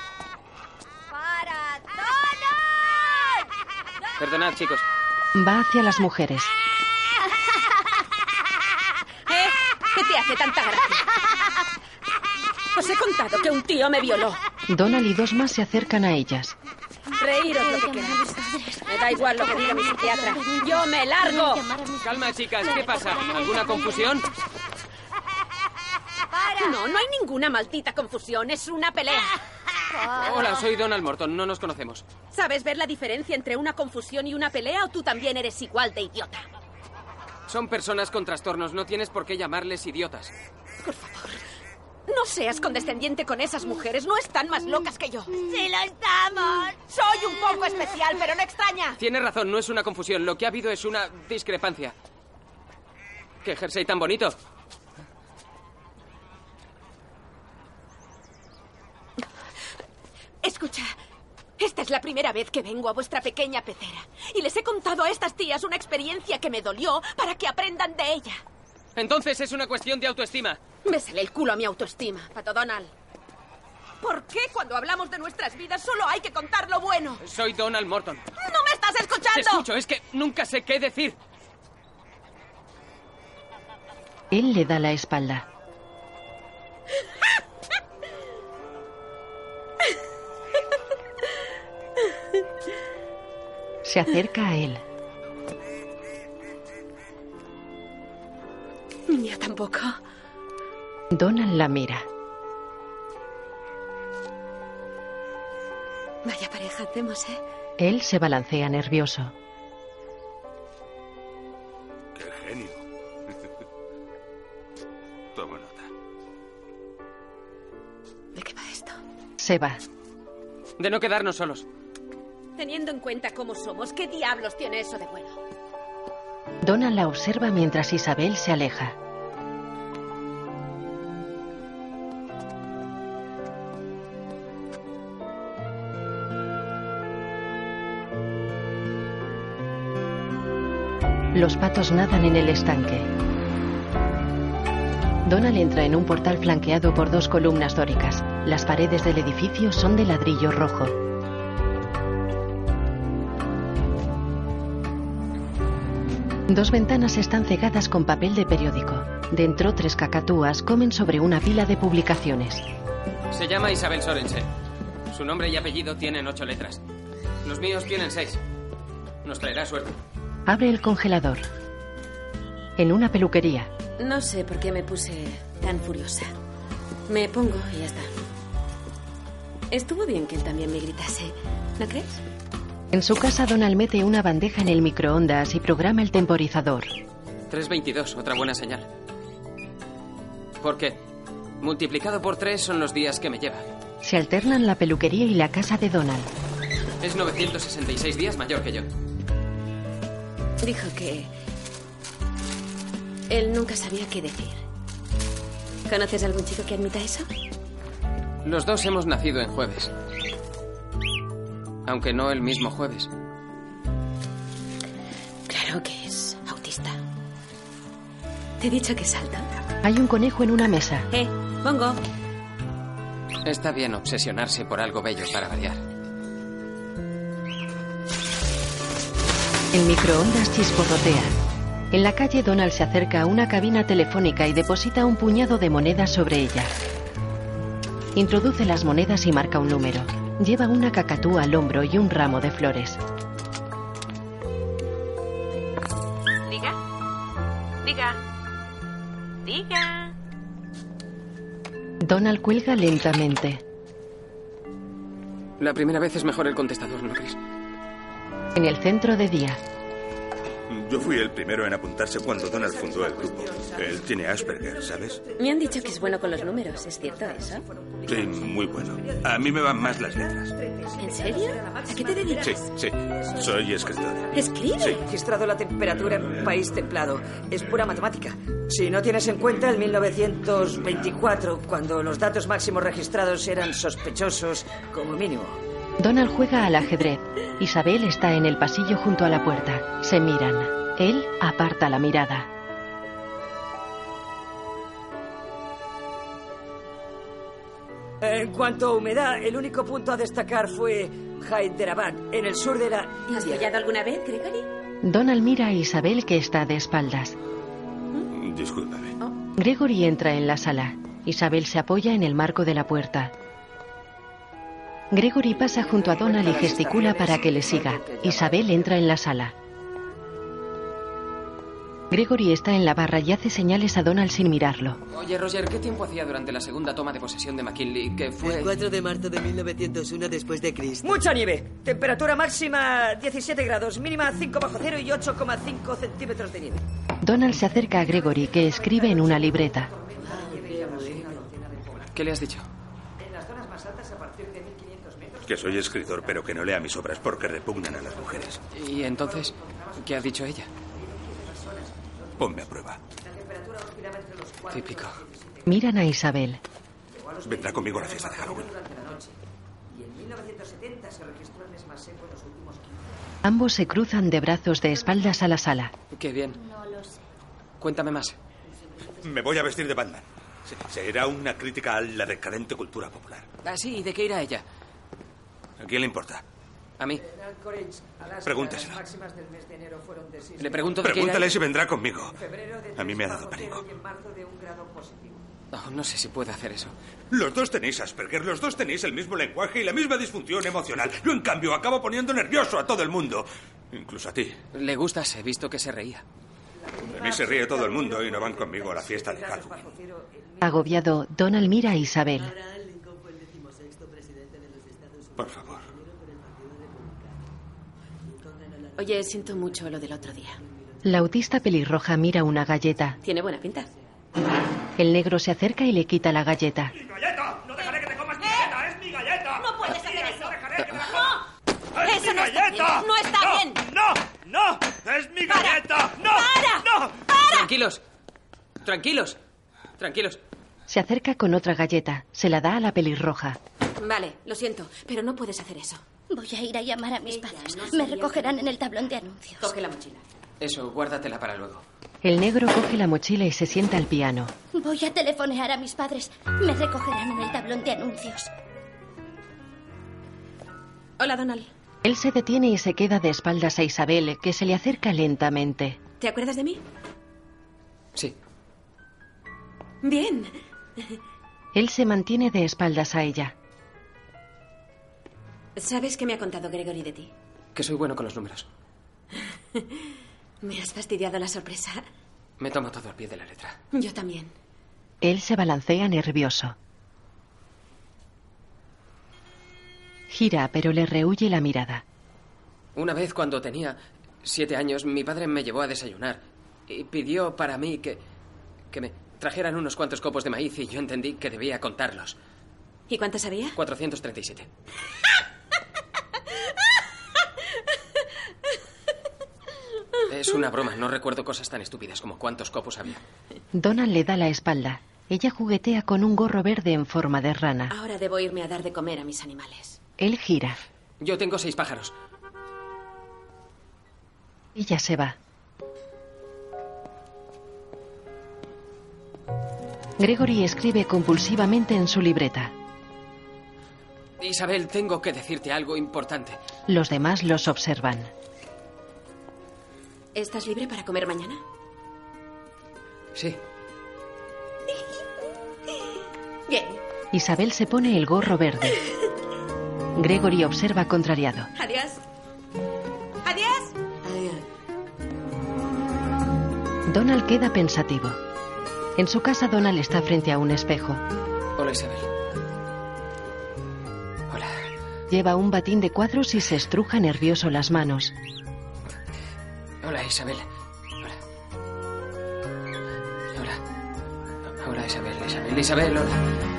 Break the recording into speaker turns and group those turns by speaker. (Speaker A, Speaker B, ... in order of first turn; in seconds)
Speaker A: 1.1-3.5, 26.3-26.7
Speaker B: 4.2-4.9, 22.0-24.3, 30.1-32.1, 37.5-40.3, 49.0-52.0, 53.4-54.4, 69.0-70.6, 77.2-78.3, 79.3-81.2, 120.8-121.7, 163.3-164.5, 165.1-166.8, 167.4-168.4, 169.2-170.0, 187.5-188.9, 190.6-191.0, 191.6-193.7, 197.0-198.9, 208.4-209.9, 211.9-213.1, 223.4-225.8, 255.6-257.4, 325.1-328.8, 340.7-341.4, 342.1-342.7, 348.7-350.7, 354.7-355.2, 366.1-366.6, 367.8-368.4, 373.6-374.6, 377.0-377.2, 380.6-381.6, 385.7-386.9, 394.7-396.2, 427.5-428.0, 428.9-429.4, 430.0-430.4, 440.6-441.8, 467.8-468.7, 472.6-473.8, 483.0-488.2, 488.9-492.4, 493.8-494.7, 500.3-503.2, 511.2-512.1, 524.4-526.6, 533.4-533.6, 551.8-552.3, 554.5-554.8, 560.0-560.7, 563.5-563.8, 564.7-566.4
Speaker C: 5.3-6.5, 14.7-16.6, 84.3-85.5, 93.8-94.8, 101.1-102.1, 107.8-109.3, 119.4-119.8, 126.6-128.9, 141.3-143.1, 145.2-151.0, 156.5-162.7, 170.5-171.4, 172.8-173.7, 182.9-186.9, 194.0-196.3, 219.8-221.1, 229.7-231.4, 231.9-236.7, 238.2-243.0, 252.0-253.6, 258.6-259.6, 286.0-292.5, 305.0-307.4, 309.6-313.3, 315.1-319.5, 322.1-325.0, 337.2-339.9, 355.7-356.6, 363.4-365.9, 400.6-402.6, 411.0-413.2, 415.0-416.9, 430.9-433.6, 442.2-444.5, 452.0-456.0, 461.7-463.5, 475.2-476.8, 480.3-482.0, 503.7-507.9, 510.2-510.8, 514.8-515.4, 520.2-522.7, 526.9-528.3, 537.3-539.0, 540.2-541.7, 547.1-548.4, 549.2-551.2, 555.3-558.3
Speaker D: 9.3-11.1, 12.7-14.4, 17.2-18.3, 18.9-21.6, 26.6-29.3, 32.3-36.5, 40.8-41.4, 42.1-45.4, 46.8-49.0, 60.4-61.0, 61.6-68.4, 70.8-72.9, 74.0-77.2, 78.4-79.7, 99.1-100.0, 106.2-107.4, 118.3-119.0, 122.6-125.4, 174.0-176.3, 177.1-178.1, 179.7-182.2, 200.6-201.3, 203.3-204.6, 205.9-207.3, 215.5-217.0, 218.6-219.5, 221.1-222.0, 246.4-246.8, 247.8-248.2, 249.4-250.1, 265.4-267.6, 271.0-272.7, 274.3-275.0, 303.3-304.7, 409.0-410.6, 413.2-413.9, 418.4-418.8, 419.6-421.4, 422.0-423.8, 425.5-427.7, 434.0-436.0, 437.2-438.7, 439.6-440.2, 451.2-451.7, 456.2-456.8, 460.0-461.2, 465.8-467.3, 469.3-470.1, 470.6-472.0, 473.9-474.5, 493.1-493.8, 507.9-510.0, 530.4-531.6, 534.9-535.2, 535.9-536.2, 536.7-537.0, 541.8-542.2, 543.4-544.0
Speaker E: 17.3-24.3, 366.5-367.2, 436.3-439.7, 444.7-448.5
Speaker F: 112.2-112.8, 115.3-115.9, 260.7-265.2, 268.1-270.5, 272.4-274.2, 308.3-309.2, 345.5-348.6, 352.4-353.0, 357.4-358.7, 369.2-373.5, 375.8-376.4, 378.5-379.0, 381.0-382.4, 383.0-383.8, 387.3-394.6, 397.1-399.9, 405.4-405.9
Speaker G: 262.4-285.6, 298.2-303.7, 315.5-318.9, 331.0-336.8, 338.0-342.2, 343.2-350.3, 350.8-355.9, 357.1-359.4, 359.9-363.2, 377.2-381.4, 382.3-385.4, 396.8-400.9
Speaker H: 328.4-331.2, 340.2-341.3, 402.4-407.4, 408.4-410.1, 544.3-544.5
Speaker I: 417.0-419.6, 420.4-421.2, 422.1-423.0, 424.0-426.2